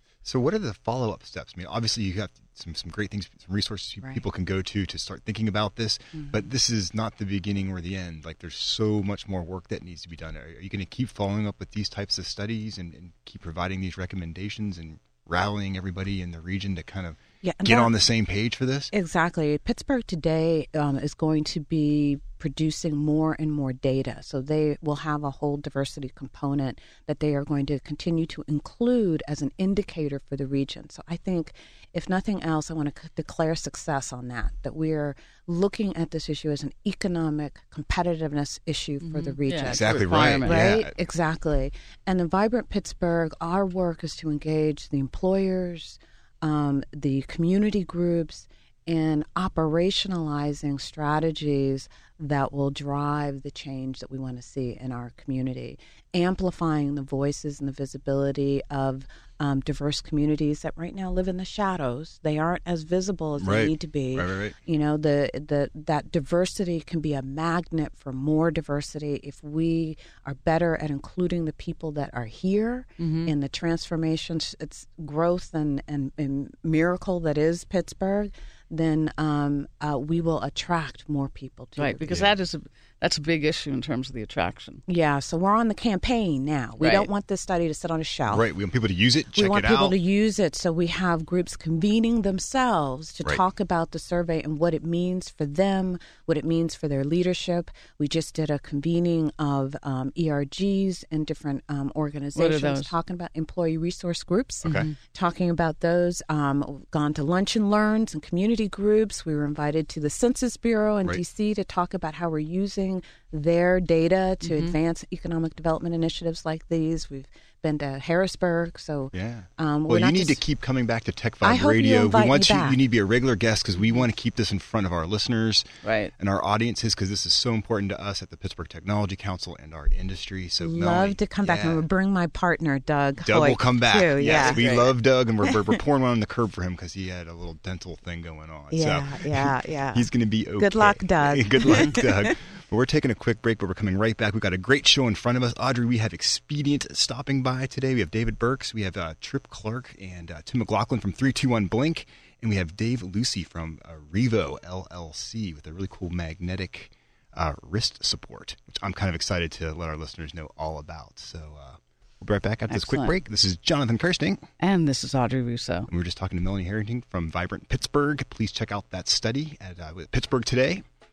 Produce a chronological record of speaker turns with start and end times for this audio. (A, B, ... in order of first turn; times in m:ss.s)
0:00.2-0:18.9 A
0:06.1-0:06.4 B
0:17.4-0:17.9 B
0:18.9-1:22.2 B
0:39.0-0:40.6 C
0:39.7-0:40.9 A
1:03.4-1:04.6 A
1:13.0-1:13.3 C
1:21.8-1:24.8 C
1:22.1-1:22.3 A
1:24.9-1:28.4 B
1:26.8-1:27.1 C
1:28.3-1:30.0 A
1:29.3-2:00.4 B
1:42.4-1:42.9 C
1:44.6-1:44.9 A
1:44.7-1:44.9 C
1:54.4-1:54.8 C
1:59.1-2:05.7 A
2:01.4-2:02.8 B
2:05.8-2:06.1 C
2:06.2-2:11.8 A
2:10.6-2:14.8 B
2:13.2-2:44.4 A
2:14.3-2:14.9 C
2:15.4-2:15.8 B
2:18.7-2:22.4 B
2:42.7-2:43.2 C
2:44.6-2:45.9 C
2:45.9-2:50.8 A